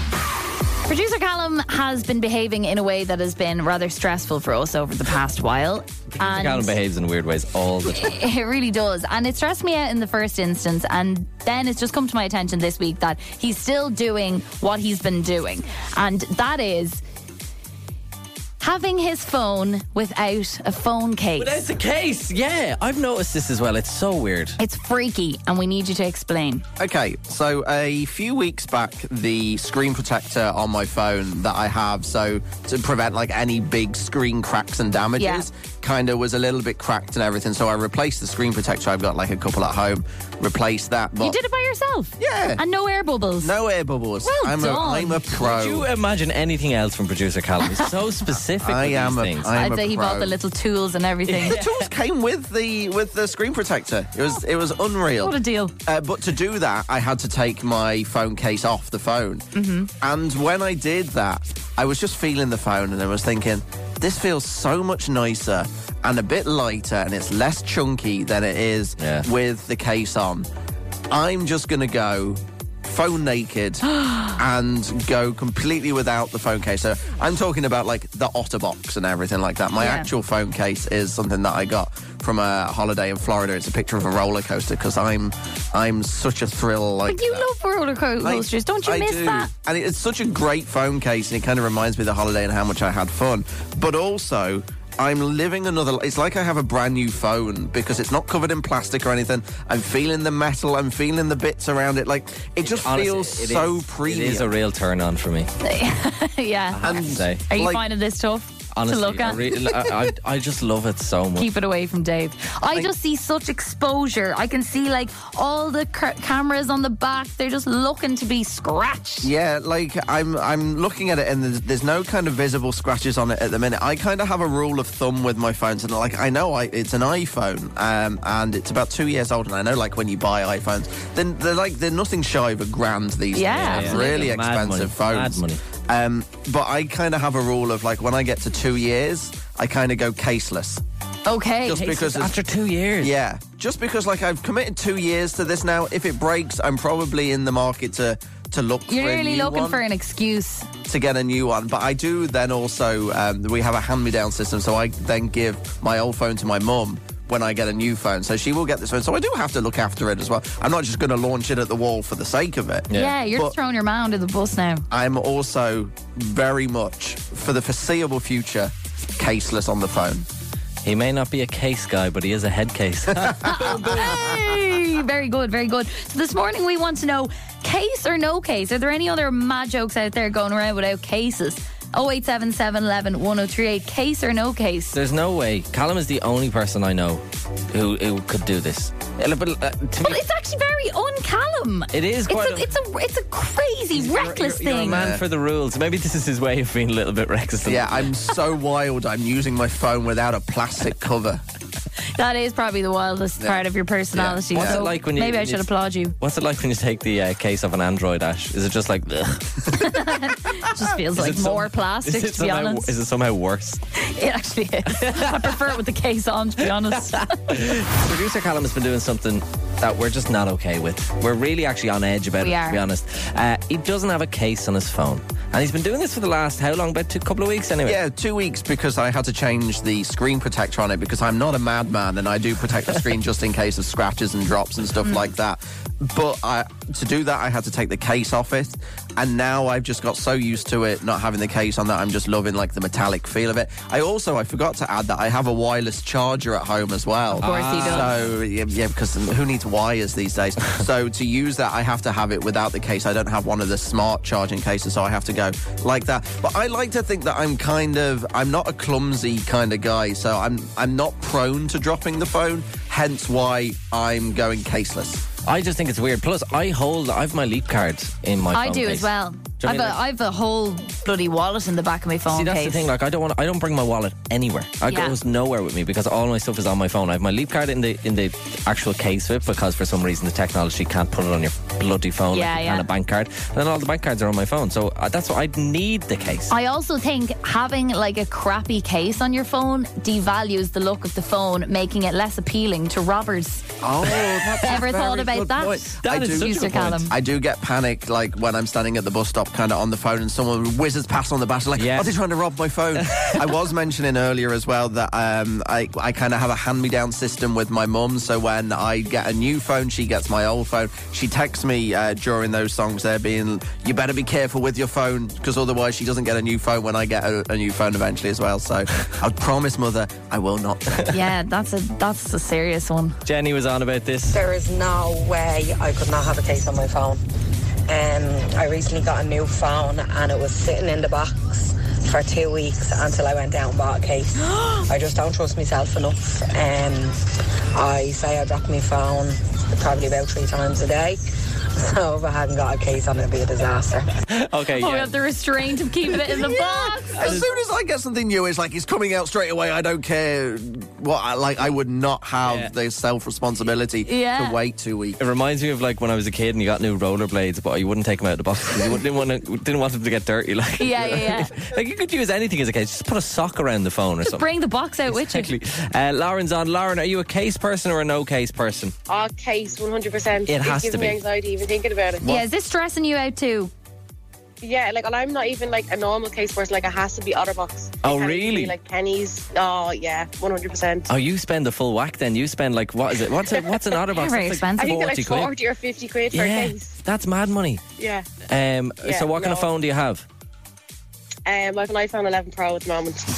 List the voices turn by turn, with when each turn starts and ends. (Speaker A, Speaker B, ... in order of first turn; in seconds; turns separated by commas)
Speaker A: 0.8-6.8, Speaker B: 6.2-8.2, Speaker A: 7.9-17.0, Speaker A: 18.6-21.5, Speaker B: 21.4-24.6, Speaker A: 24.6-26.6, Speaker C: 26.8-41.4, Speaker A: 35.2-35.5, Speaker A: 41.2-43.5, Speaker C: 42.2-42.6, Speaker C: 43.4-45.9, Speaker A: 44.2-45.2, Speaker B: 45.3-49.5, Speaker C: 48.6-50.4, Speaker A: 49.5-51.6, Speaker B: 51.3-51.9, Speaker C: 51.4-59.5, Speaker A: 55.2-55.7, Speaker A: 59.5-59.9, Speaker C: 60.0-70.5, Speaker B: 69.0-69.3, Speaker C: 71.1-87.5, Speaker A: 79.8-80.1, Speaker A: 87.1-89.5, Speaker C: 88.2-104.5, Speaker B: 102.6-105.5, Speaker A: 105.6-109.4, Speaker B: 106.7-107.4, Speaker C: 106.8-107.8, Speaker B: 108.7-111.5, Speaker A: 111.4-119.3, Speaker C: 119.2-140.8, Speaker A: 133.3-134.2, Speaker B: 133.5-135.6, Speaker A: 141.2-142.0, Speaker C: 141.7-142.3, Speaker B: 141.7-143.1, Speaker C: 143.0-149.8, Speaker A: 148.9-150.7, Speaker C: 150.8-163.5, Speaker B: 162.9-163.1, Speaker A: 162.9-164.8, Speaker C: 164.9-170.2, Speaker B: 170.8-174.3, Speaker C: 173.2-174.0, Speaker A: 173.4-184.9, Speaker B: 184.9-190.2, Speaker A: 190.0-195.0, Speaker B: 191.9-192.7, Speaker B: 193.9-198.1, Speaker C: 194.8-195.2, Speaker C: 197.6-201.4, Speaker A: 202.1-206.1, Speaker C: 204.1-204.9, Speaker B: 204.5-205.7, Speaker B: 206.2-209.8, Speaker A: 209.7-212.9, Speaker B: 211.1-213.8, Speaker A: 213.9-217.4, Speaker B: 214.9-215.7, Speaker B: 216.6-228.0, Speaker A: 222.4-222.8, Speaker C: 227.8-265.2, Speaker B: 247.3-248.3, Speaker A: 247.4-248.1, Speaker B: 265.4-270.0, Speaker A: 268.5-272.9, Speaker B: 272.3-286.5, Speaker A: 274.8-275.1, Speaker A: 282.3-282.9, Speaker A: 286.5-293.6, Speaker C: 293.8-321.1, Speaker B: 294.0-297.1, Speaker A: 294.6-297.1, Speaker B: 301.8-302.1, Speaker B: 303.0-303.6, Speaker A: 321.1-323.2, Speaker B: 323.2-324.4, Speaker D: 324.3-327.2, Speaker D: 327.9-341.2, Speaker D: 341.8-344.1, Speaker B: 344.3-345.1, Speaker A: 344.8-347.5, Speaker C: 346.2-355.2, Speaker B: 347.2-347.5, Speaker B: 352.4-352.7, Speaker A: 354.0-354.6, Speaker B: 355.2-364.4, Speaker A: 360.8-361.5, Speaker A: 364.2-365.5, Speaker B: 365.1-368.9, Speaker E: 369.1-372.2, Speaker B: 370.5-371.2, Speaker A: 372.2-373.7, Speaker E: 374.6-381.1, Speaker B: 378.0-378.8, Speaker B: 381.1-385.5, Speaker A: 384.1-385.0, Speaker E: 384.8-386.9, Speaker B: 386.3-387.8, Speaker E: 388.0-388.2, Speaker B: 388.4-390.2, Speaker E: 389.0-389.7, Speaker E: 391.4-393.2